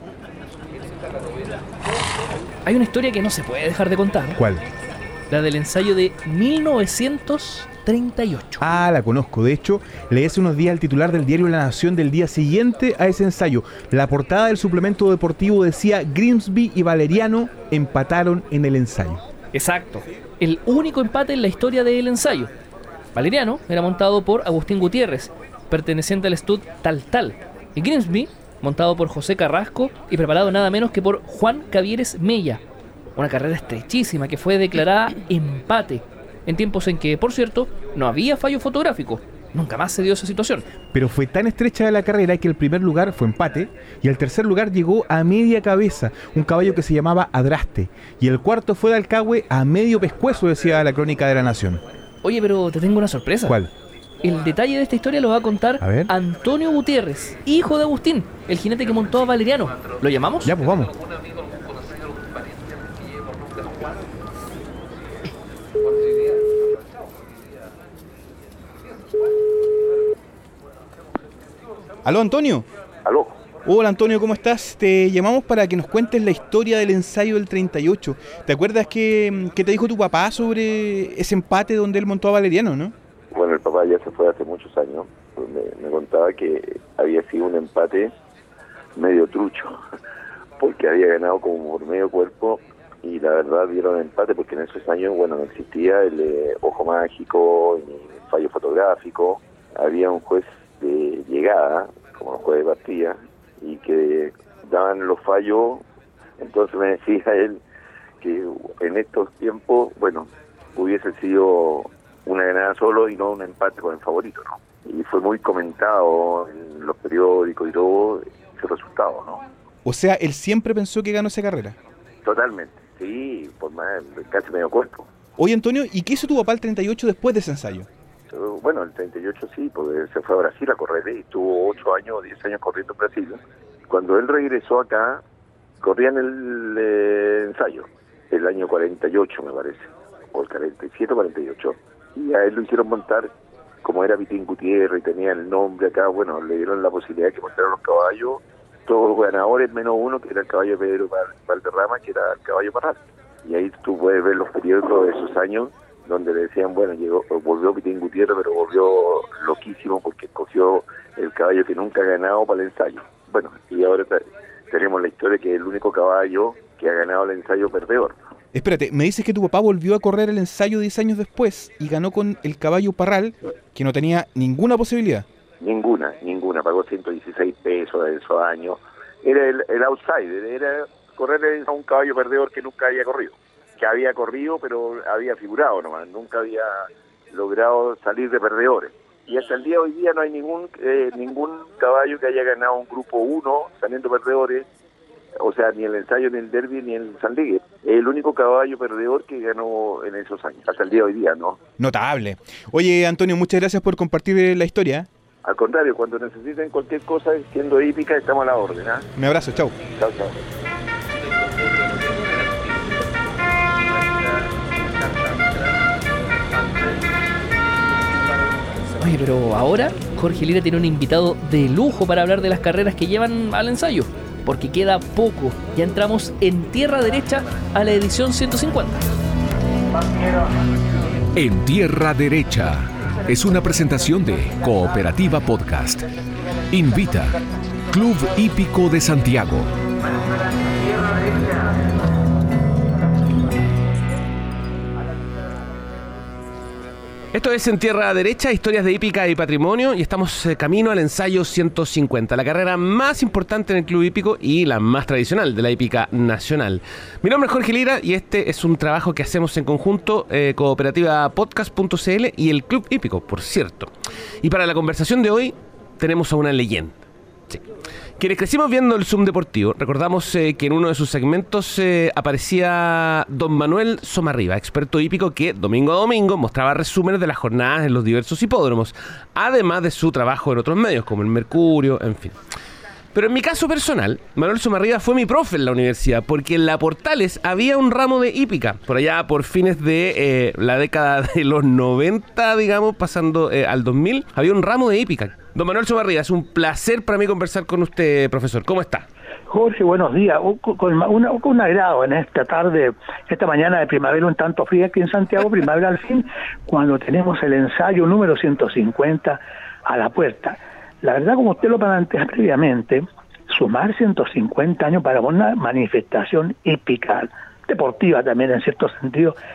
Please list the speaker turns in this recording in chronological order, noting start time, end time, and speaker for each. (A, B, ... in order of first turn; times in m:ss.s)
0:02.6-0:04.4 A
0:04.4-0:04.6 B
0:05.3-0:08.6 A
0:08.6-0:19.2 B
0:19.5-0:22.5 A
0:23.1-0:32.6 A
0:33.2-0:40.7 A
0:40.9-0:51.8 B
0:52.2-0:53.6 A
0:53.4-0:53.7 B
0:54.2-1:00.5 A
0:55.8-0:56.1 B
1:00.4-1:00.9 B
1:12.0-1:12.7 B
1:13.0-1:13.4 C
1:13.6-1:22.9 B
1:23.3-1:28.1 C
1:29.0-1:29.8 C
1:30.6-1:45.8 C
1:46.4-1:47.6 C
1:48.2-1:59.4 C
1:59.8-2:01.8 B
2:02.2-2:05.1 C
2:05.4-2:07.9 B
2:08.3-2:15.2 C
2:15.8-2:48.2 C
2:48.5-2:55.2 B
2:55.6-3:06.7 C
3:07.3-3:14.7 C
3:15.4-3:21.6 C
3:21.8-3:25.1 B
3:25.4-3:29.1 C
3:29.2-3:29.7 B
3:29.9-3:30.4 C
3:39.0-3:49.0 A
3:51.4-3:56.0 D
3:56.7-3:57.4 D
3:57.9-3:59.7 D
4:01.0-4:01.5 E
4:07.3-4:23.9 E
4:24.4-4:27.0 E
4:28.2-4:42.4 E
4:43.1-4:59.0 E
4:59.5-5:19.4 F